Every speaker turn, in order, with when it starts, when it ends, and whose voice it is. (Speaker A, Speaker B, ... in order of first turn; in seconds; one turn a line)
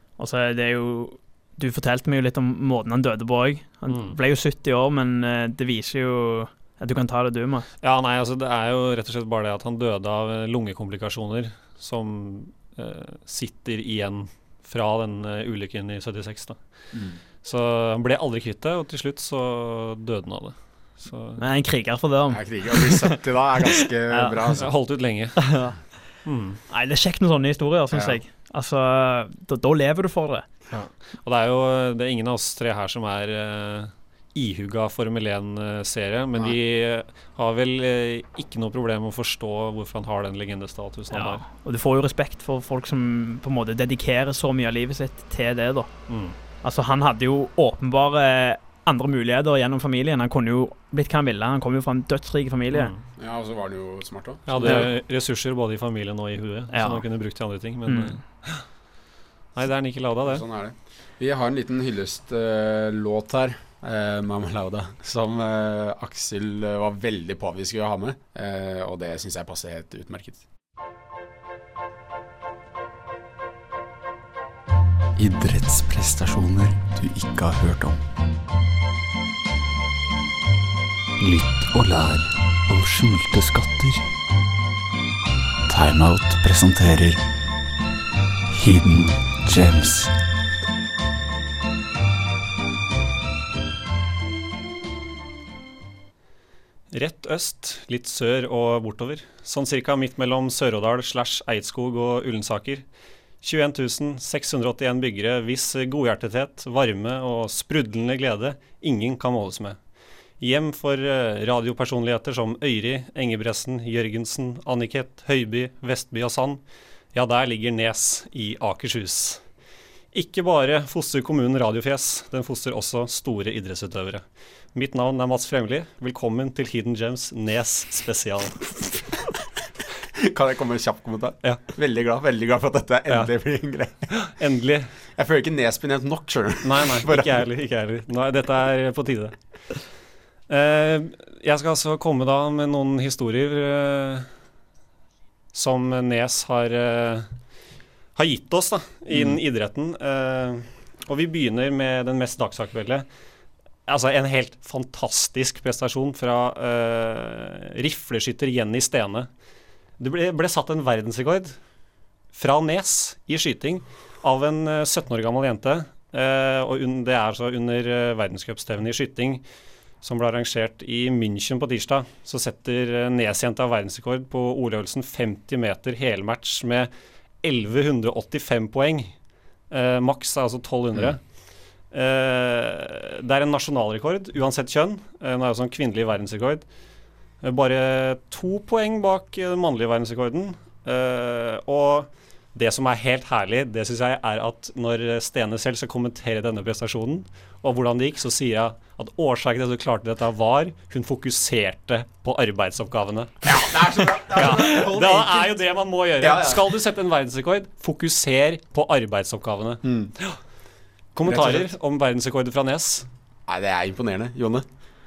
Speaker A: 0.2-7.7
Speaker B: 3.9-4.2
Speaker B: 7.8-16.6
Speaker C: 16.9-17.2
Speaker B: 17.4-21.4
Speaker A: 21.4-23.2
Speaker C: 22.3-24.7
Speaker A: 24.1-24.4
Speaker B: 24.6-25.5
Speaker A: 25.4-25.8
Speaker B: 26.2-26.6
Speaker A: 26.7-30.5
Speaker C: 27.9-28.2
Speaker B: 30.7-41.4
Speaker A: 41.1-45.9
Speaker B: 46.1-46.4
Speaker A: 46.6-52.9
Speaker B: 52.7-53.0
Speaker C: 53.2-54.9
Speaker B: 54.5-58.6
Speaker A: 56.7-57.0
Speaker A: 57.9-58.2
Speaker B: 59.5-60.4
Speaker C: 60.2-70.4
Speaker C: 75.2-78.0
Speaker C: 81.3-84.0
Speaker C: 85.7-87.2
Speaker C: 88.6-90.1
Speaker B: 96.9-102.8
Speaker B: 103.4-109.8
Speaker B: 110.4-116.6
Speaker B: 117.1-119.4
Speaker B: 120.1-124.2
Speaker B: 124.7-128.6
Speaker C: 130.2-134.3
Speaker B: 134.2-134.9
Speaker C: 135.2-137.4
Speaker B: 136.6-139.3
Speaker B: 140.5-144.3
Speaker B: 145.5-147.3
Speaker B: 148.2-153.1
Speaker B: 153.9-159.3
Speaker B: 160.0-161.6
Speaker B: 162.3-169.4
Speaker B: 170.0-176.9
Speaker B: 177.4-179.2
Speaker B: 179.7-181.2
Speaker B: 181.9-186.7
Speaker B: 187.4-210.4
Speaker C: 203.4-205.5
Speaker C: 206.2-206.8
Speaker C: 209.8-210.1
Speaker B: 211.2-213.1
Speaker C: 211.2-211.7
Speaker C: 213.5-214.7